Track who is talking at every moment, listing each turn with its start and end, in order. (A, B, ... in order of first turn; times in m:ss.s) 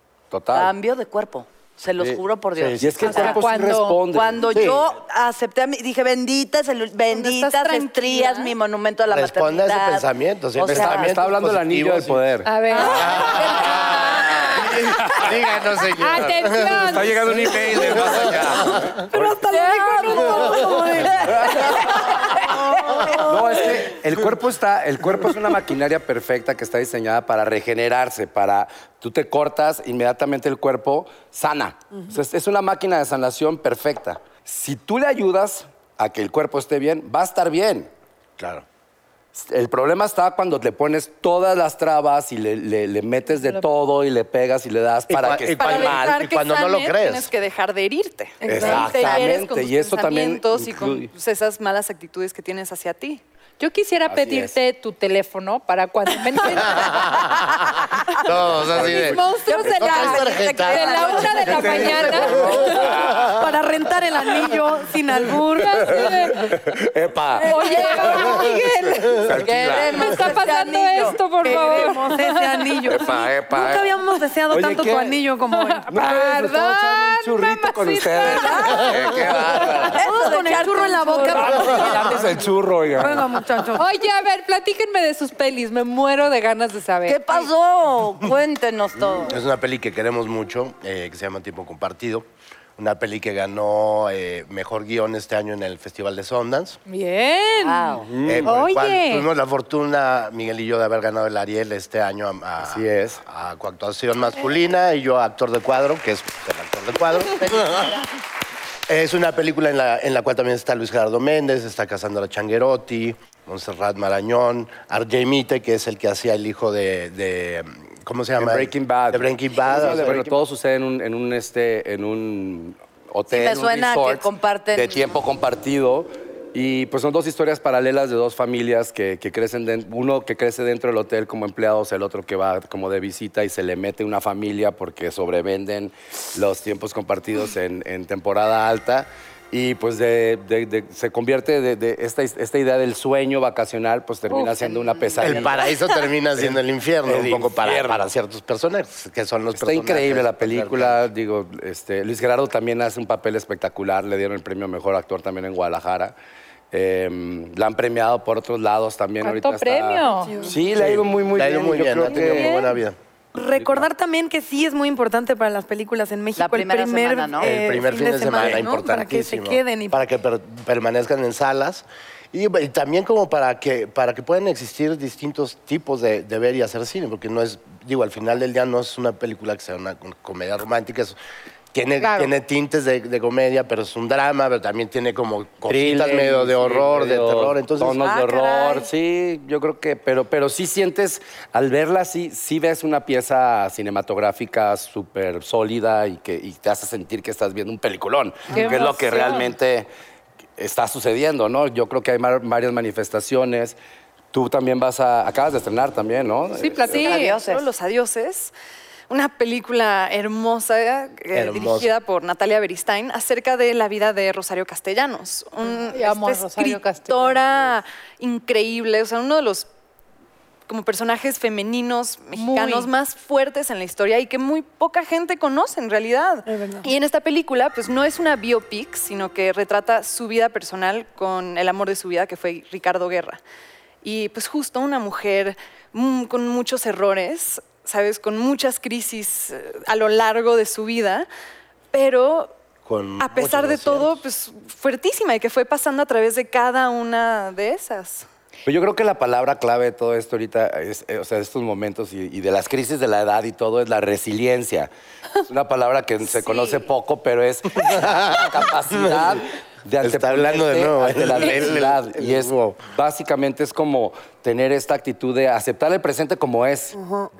0:00.3-0:00.7 A
0:00.5-0:03.4 B
0:02.5-0:03.1 C
0:02.8-0:04.5 A
0:03.0-0:04.0 D
0:04.1-0:11.2 B
0:04.4-0:04.8 C
0:07.1-0:08.5 D
0:09.1-0:12.2 C
0:10.6-0:12.5 A
0:12.4-0:13.1 D
0:12.8-0:18.9 C
0:13.2-0:13.9 B
0:15.0-0:15.3 A
0:16.0-0:17.9 D
0:16.8-0:19.4 A
0:19.1-0:23.3 E
0:19.3-0:20.8 F
0:19.5-0:20.9 D
0:21.3-0:22.0 A
0:22.5-0:23.3 B
0:23.2-0:37.9 A
0:38.4-0:38.6 C
0:39.4-0:46.2 A
0:45.1-0:47.3 C
0:45.5-0:53.2 F
0:48.4-0:48.9 E
0:48.4-0:51.1 A
0:48.6-0:49.1 C
0:53.6-0:57.2 D
0:54.1-0:54.5 A
0:56.8-0:57.5 C
0:58.2-1:03.4 C
0:58.5-0:59.1 A
0:58.7-1:02.8 D
0:59.8-1:01.6 B
1:01.5-1:03.3 A
1:03.3-1:06.0 E
1:05.5-1:06.5 D
1:05.8-1:08.4 A
1:07.4-1:08.4 B
1:07.4-1:09.3 D
1:07.6-1:08.2 E
1:09.1-1:10.1 A
1:09.4-1:11.9 B
1:09.8-1:12.8 D
1:11.4-1:15.8 E
1:12.9-1:13.9 A
1:14.5-1:15.2 A
1:15.5-1:19.9 D
1:15.9-1:20.0 A
1:18.2-1:18.9 B
1:19.9-1:22.2 B
1:20.0-1:22.4 E
1:21.3-1:23.4 A
1:23.0-1:23.9 E
1:23.7-1:27.5 D
1:27.0-1:29.4 B
1:29.1-1:32.2 C
1:32.8-1:36.8 C
1:36.9-1:39.3 D
1:37.6-1:38.1 B
1:38.1-1:38.6 A
1:38.2-1:48.0 C
1:42.6-1:43.2 A
1:47.4-1:48.0 B
1:48.9-2:00.4 C
1:58.4-2:25.7 A
2:03.3-2:05.2 B
2:24.4-2:25.6 B
2:25.2-2:31.0 C
2:27.0-2:28.1 A
2:29.6-2:36.1 A
2:36.7-2:42.6 A
2:39.2-2:40.4 D
2:40.0-2:40.6 E
2:40.7-2:43.0 C
2:42.2-2:42.6 E
2:43.3-2:50.0 E
2:43.5-2:43.8 A
2:46.4-2:47.5 B
2:47.4-3:01.2 C
3:01.7-3:08.0 C
3:02.0-3:02.3 D
3:05.7-3:19.9 A
3:08.0-3:08.9 B
3:18.5-3:19.5 D
3:20.6-3:23.8 A
3:24.3-3:27.0 A
3:26.6-3:27.4 D
3:26.9-3:28.5 F
3:26.9-3:27.6 B
3:29.1-3:39.7 F
3:31.3-3:31.9 C
3:35.6-3:37.4 D
3:40.7-3:53.4 F
3:42.3-3:42.9 D
3:46.5-3:46.9 E
3:54.0-4:01.3 F
4:01.9-4:02.6 F
4:02.8-4:04.2 C
4:03.2-4:08.3 F
4:08.6-4:14.9 A
4:15.5-4:27.0 A
4:16.4-4:16.8 F
4:17.7-4:19.4 C
4:20.0-4:22.8 C
4:27.0-4:27.3 E